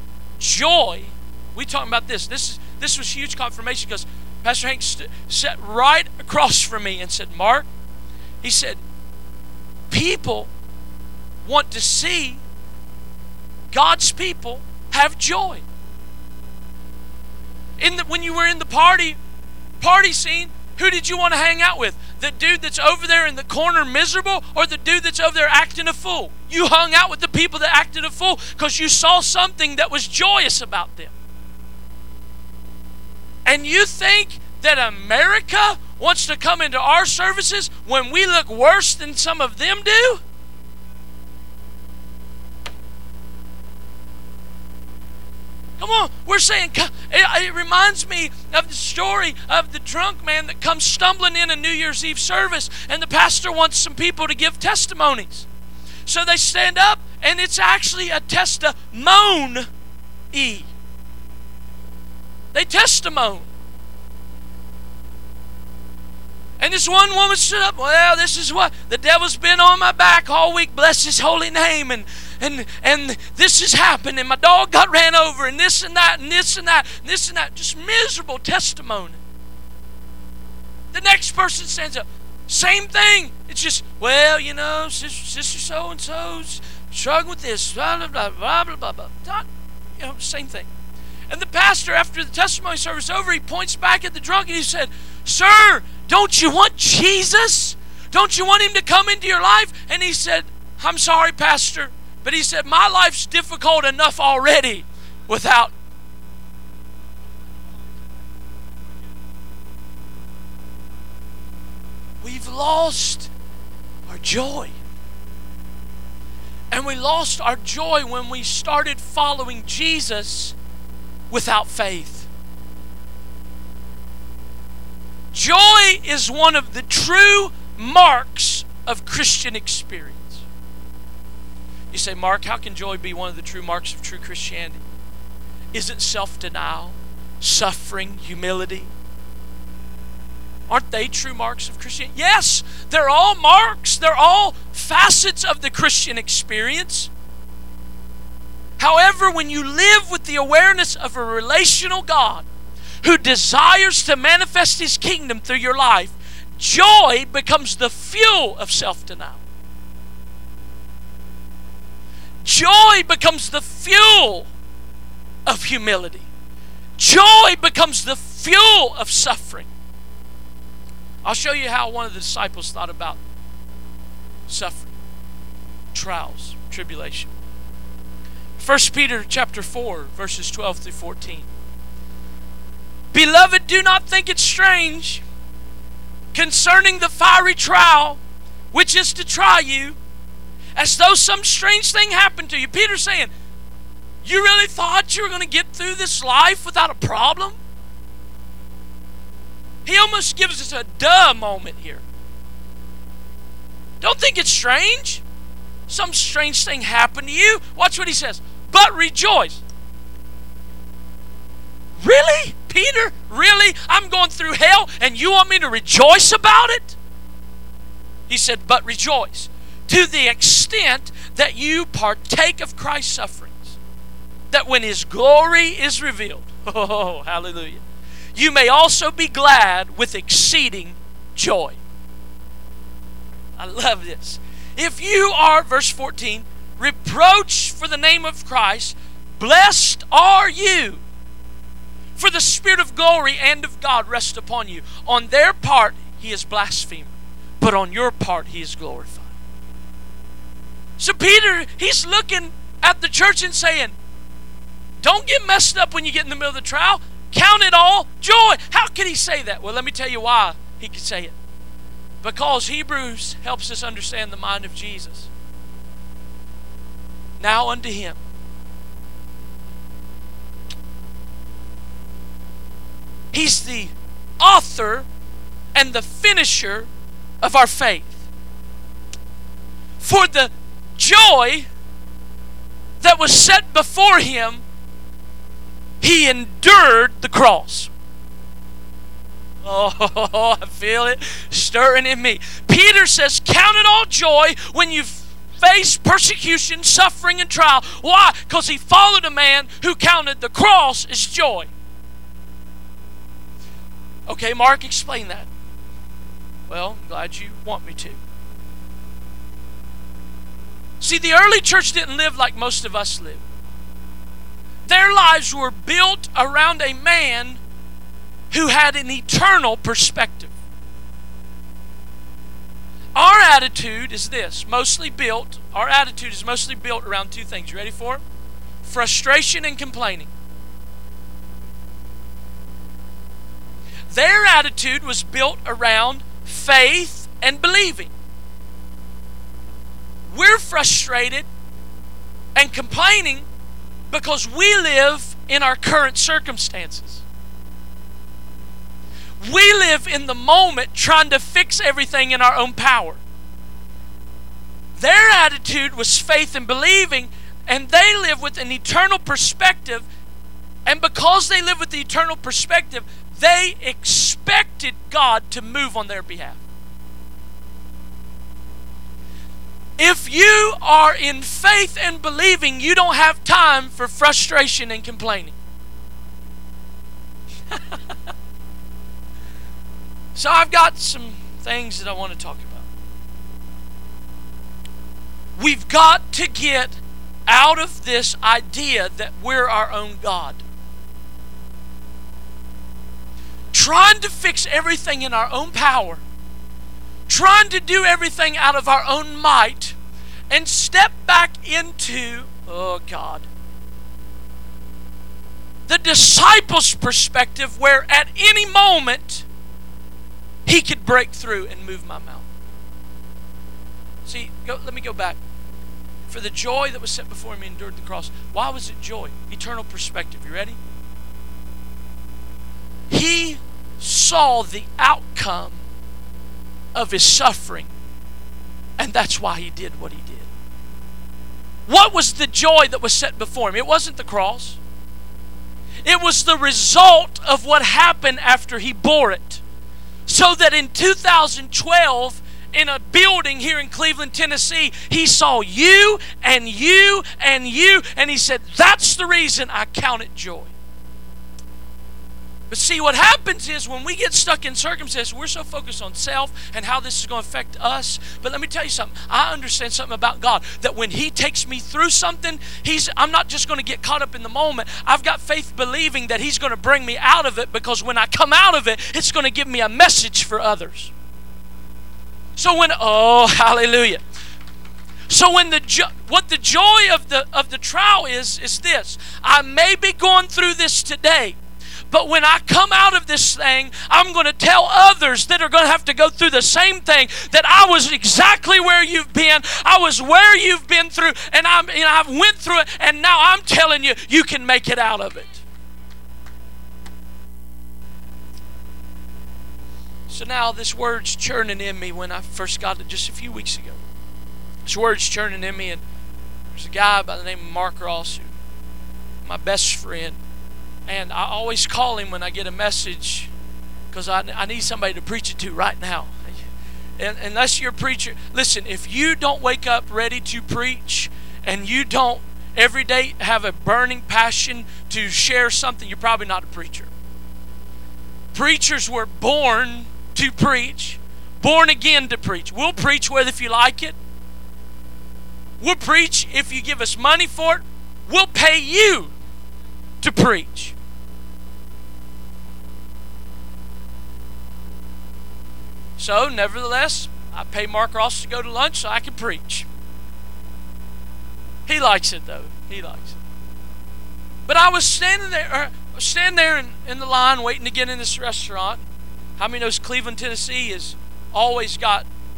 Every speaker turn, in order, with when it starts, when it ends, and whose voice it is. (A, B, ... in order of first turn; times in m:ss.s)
0:00.4-0:07.7 A
0:08.4-0:08.8 A
0:09.9-0:10.5 A
0:11.4-0:12.4 A
0:13.7-0:15.6 A
0:17.8-0:19.2 A
0:19.8-0:31.1 A
0:33.4-0:40.2 A
0:45.8-0:55.5 A
0:56.0-0:59.7 A
1:00.3-1:00.7 A
1:02.5-1:03.5 A
1:06.6-1:19.2 A
1:20.9-1:29.5 A
1:30.0-1:30.7 A
1:31.3-1:45.7 A
1:52.2-1:53.3 A
1:54.1-1:54.8 A
1:56.7-2:00.5 A
2:01.3-2:02.3 A
2:05.3-2:10.4 A
2:11.9-2:14.8 A
2:15.7-2:18.9 A
2:20.7-2:27.1 A
2:28.8-2:32.4 A
2:33.0-2:39.4 A
2:42.4-2:44.5 A
2:45.4-2:46.3 A
2:47.0-2:49.7 A
2:51.2-2:53.2 A
2:54.5-2:54.9 A
2:55.9-2:57.3 A
2:58.6-3:01.5 A
3:03.1-3:05.2 A
3:06.3-3:08.2 A
3:08.7-3:10.0 A
3:10.8-3:13.3 A
3:14.2-3:17.6 A
3:19.8-3:22.0 A
3:24.0-3:25.2 A
3:25.9-3:29.6 A
3:32.0-3:37.0 A
3:38.3-3:43.8 A
3:44.5-3:47.8 A
3:48.3-3:51.8 A
3:53.6-4:01.0 A
4:02.2-4:09.3 A
4:11.0-4:13.9 A
4:15.0-4:21.4 A
4:22.2-4:25.3 A
4:27.4-4:28.2 A
4:33.3-4:35.1 A
4:35.7-4:36.9 A
4:37.4-4:38.2 A
4:40.0-4:41.7 A
4:43.0-4:44.6 A
4:46.0-4:47.9 A
4:49.6-5:01.7 A
5:04.3-5:05.5 A
5:06.7-5:08.2 A
5:11.0-5:13.4 A
5:14.8-5:17.6 A
5:18.5-5:20.5 A
5:23.1-5:28.2 A
5:28.8-5:30.3 A
5:34.1-5:38.1 A
5:40.3-5:41.5 A
5:42.6-5:43.4 A
5:44.1-5:47.2 A
5:49.4-5:53.2 A
5:55.0-6:00.0 A
6:00.8-6:06.6 A
6:10.0-6:15.6 A
6:20.3-6:22.8 A
6:25.6-6:30.6 A
6:33.7-6:36.2 A
6:37.3-6:40.0 A
6:40.5-6:43.5 A
6:45.9-6:49.4 A
6:50.6-6:52.5 A
6:54.2-6:55.4 A
6:56.3-7:00.8 A
7:03.1-7:05.8 A
7:06.9-7:07.9 A
7:09.0-7:10.5 A
7:11.9-7:14.8 A
7:16.0-7:19.6 A
7:20.3-7:30.7 A
7:32.7-7:51.1 A
7:52.6-7:54.2 A
7:55.3-8:01.6 A
8:02.1-8:15.6 A
8:20.3-8:24.0 A
8:24.8-8:26.0 A
8:26.7-8:28.5 A
8:29.4-8:30.4 A
8:31.1-8:33.5 A
8:34.1-8:36.6 A
8:37.2-8:47.1 A
8:48.5-8:54.2 A
8:55.8-8:59.3 A
9:00.2-9:00.9 A
9:06.2-9:09.9 A
9:11.9-9:13.4 A
9:14.7-9:19.0 A
9:19.6-9:22.3 A